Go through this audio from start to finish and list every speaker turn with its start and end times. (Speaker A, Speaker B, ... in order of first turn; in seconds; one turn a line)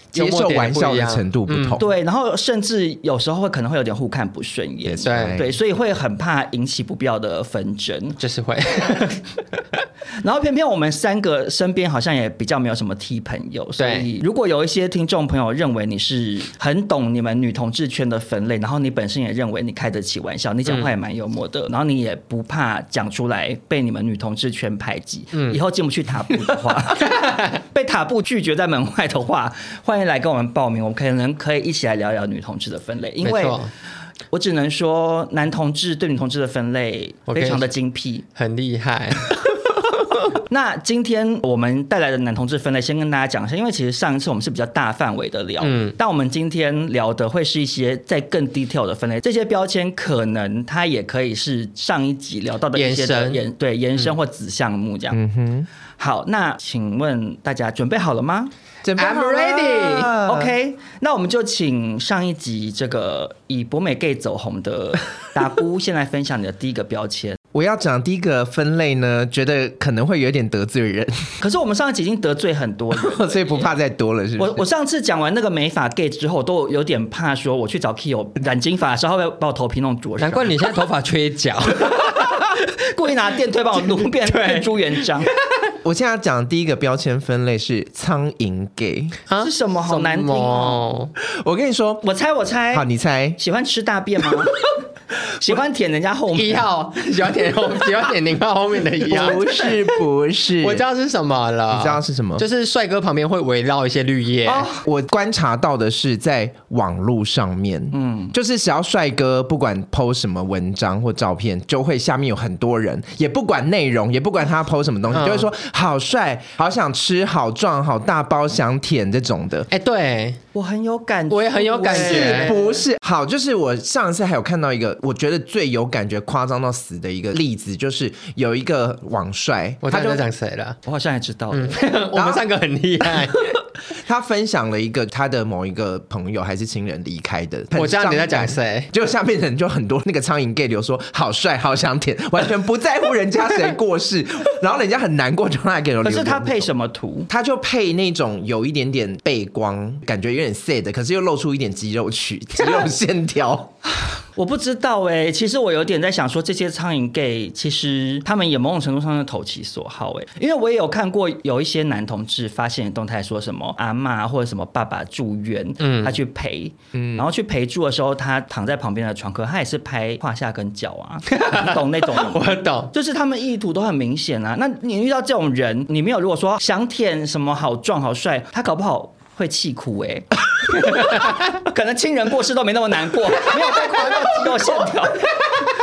Speaker A: 0.1-1.8
Speaker B: 0.1-1.9
Speaker C: 1.8-8.2
Speaker B: 4.8-5.6
Speaker A: 5.0-5.4
Speaker A: 8.2-9.2
Speaker C: 10.2-33.6
Speaker A: 13.8-14.1
Speaker A: 20.7-20.9
Speaker A: 25.3-25.6
Speaker A: 27.1-27.6
Speaker A: 33.2-33.7
Speaker C: 34.3-38.2
Speaker A: 37.3-37.6
Speaker A: 38.4-39.3
Speaker C: 40.3-55.2
Speaker A: 45.6-46.0
Speaker A: 52.8-53.4
Speaker B: 55.1-55.7
Speaker C: 56.0-58.5
Speaker B: 58.8-60.5
Speaker A: 59.0-60.1
Speaker C: 60.2-67.4
Speaker B: 67.5-71.3
Speaker C: 71.4-73.6
Speaker B: 73.0-74.6
Speaker C: 74.4-80.6
Speaker A: 80.2-82.4
Speaker C: 81.8-85.3
Speaker A: 83.9-85.3
Speaker B: 85.8-89.2
Speaker A: 89.3-91.1
Speaker C: 89.4-90.9
Speaker B: 91.2-92.0
Speaker C: 92.0-92.9
Speaker B: 92.7-93.4
Speaker C: 93.4-94.7
Speaker C: 95.4-96.7
Speaker A: 96.3-99.5
Speaker B: 99.0-100.9
Speaker A: 100.6-104.7
Speaker B: 101.7-102.5
Speaker C: 104.5-104.8
Speaker B: 104.7-119.7
Speaker C: 107.9-108.3
Speaker A: 115.1-115.5
Speaker A: 119.7-120.4
Speaker C: 120.5-122.8
Speaker A: 121.3-122.6
Speaker B: 121.9-130.2
Speaker A: 129.8-130.8
Speaker C: 130.8-131.8
Speaker A: 131.5-133.5
Speaker B: 132.1-132.4
Speaker B: 133.0-146.7
Speaker A: 137.8-138.9
Speaker C: 146.0-147.3
Speaker B: 147.3-153.7
Speaker C: 154.3-185.4
Speaker A: 165.8-166.2
Speaker B: 166.9-167.3
Speaker A: 171.3-172.9
Speaker B: 184.5-184.8